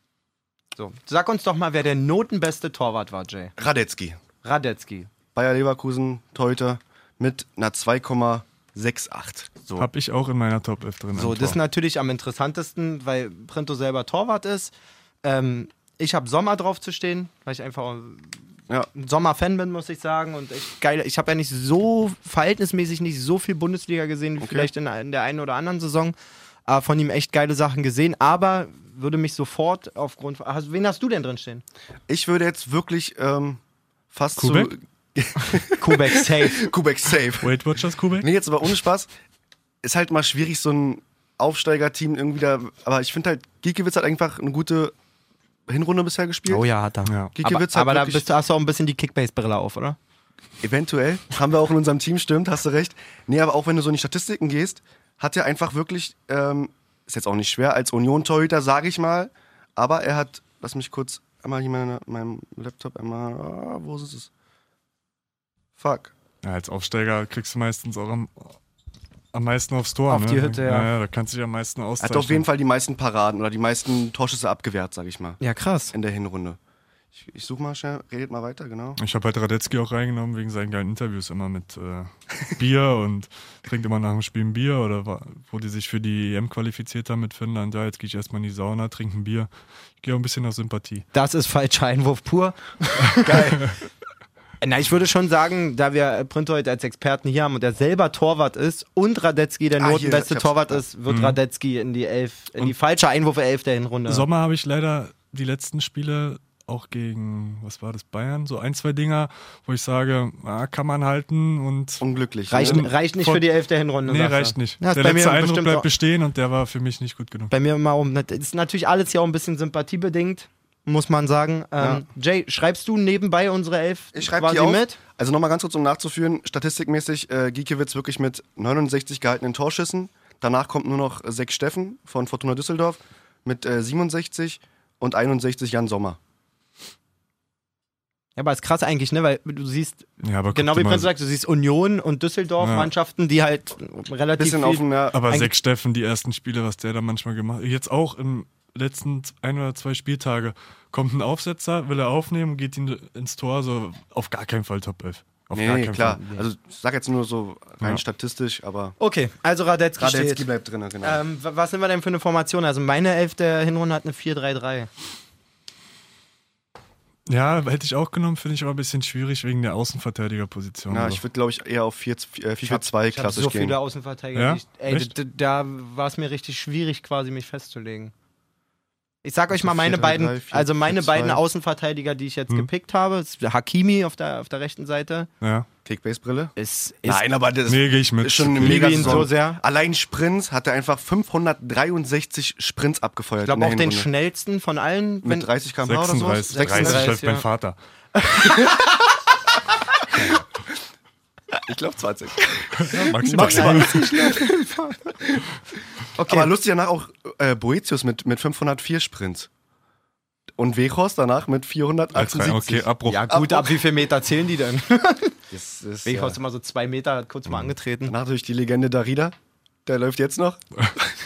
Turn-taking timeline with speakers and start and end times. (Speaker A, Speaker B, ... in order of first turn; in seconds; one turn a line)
Speaker A: 0.7-3.5
Speaker B: 3.6-4.2
Speaker A: 4.4-5.1
Speaker B: 5.3-9.9
Speaker C: 9.8-11.6
Speaker A: 11.1-18.4
Speaker A: 18.9-26.1
Speaker B: 24.4-24.7
Speaker A: 26.7-31.6
Speaker B: 32.1-33.6
Speaker B: 34.1-37.7
Speaker C: 34.4-34.7
Speaker A: 35.4-36.7
Speaker C: 37.4-38.3
Speaker B: 38.2-39.1
Speaker B: 39.8-44.9
Speaker B: 45.7-46.6
Speaker A: 46.5-50.0
Speaker C: 47.0-47.3
Speaker B: 47.4-48.3
Speaker B: 50.6-64.3
Speaker B: 65.8-66.1
Speaker C: 66.4-68.5
Speaker C: 69.3-72.5
Speaker A: 70.1-70.9
Speaker B: 72.0-75.4
Speaker A: 75.4-75.9
Speaker B: 75.9-76.6
Speaker B: 77.1-79.0
Speaker C: 79.0-89.5
Speaker C: 90.0-91.0
Speaker A: 91.1-93.6
Speaker B: 93.2-93.7
Speaker A: 94.6-104.2
Speaker B: 99.8-100.8
Speaker C: 101.1-101.4
Speaker C: 104.1-113.4
Speaker B: 112.0-112.9
Speaker A: 112.5-115.9
Speaker C: 114.0-117.5
Speaker A: 117.5-125.0
Speaker B: 121.8-122.0
Speaker B: 124.1-136.2
Speaker A: 138.4-145.5
Speaker C: 140.2-141.1
Speaker C: 142.6-142.9
Speaker B: 144.4-145.2
Speaker C: 145.1-156.2
Speaker B: 155.5-158.9
Speaker A: 159.0-160.5
Speaker B: 160.0-161.2
Speaker A: 161.0-164.9
Speaker C: 167.3-171.2
Speaker B: 170.9-173.8
Speaker A: 172.6-178.1
Speaker C: 174.3-175.1
Speaker A: 179.2-185.3
Speaker B: 179.5-181.4
Speaker C: 185.4-185.7
Speaker B: 185.8-186.5
Speaker A: 186.6-187.2
Speaker B: 187.0-194.1
Speaker C: 187.7-189.3
Speaker A: 188.6-189.6
Speaker A: 193.4-195.5
Speaker B: 195.2-197.2
Speaker C: 195.8-197.8
Speaker A: 196.5-197.4
Speaker A: 198.1-199.1
Speaker B: 201.7-204.5
Speaker C: 202.7-204.1
Speaker A: 203.2-205.1
Speaker B: 205.2-205.4
Speaker A: 206.1-206.5
Speaker B: 206.2-209.5
Speaker B: 210.6-213.7
Speaker C: 212.1-213.3
Speaker A: 213.0-215.4
Speaker B: 215.5-216.4
Speaker A: 216.0-218.1
Speaker B: 218.1-219.3
Speaker B: 219.9-220.6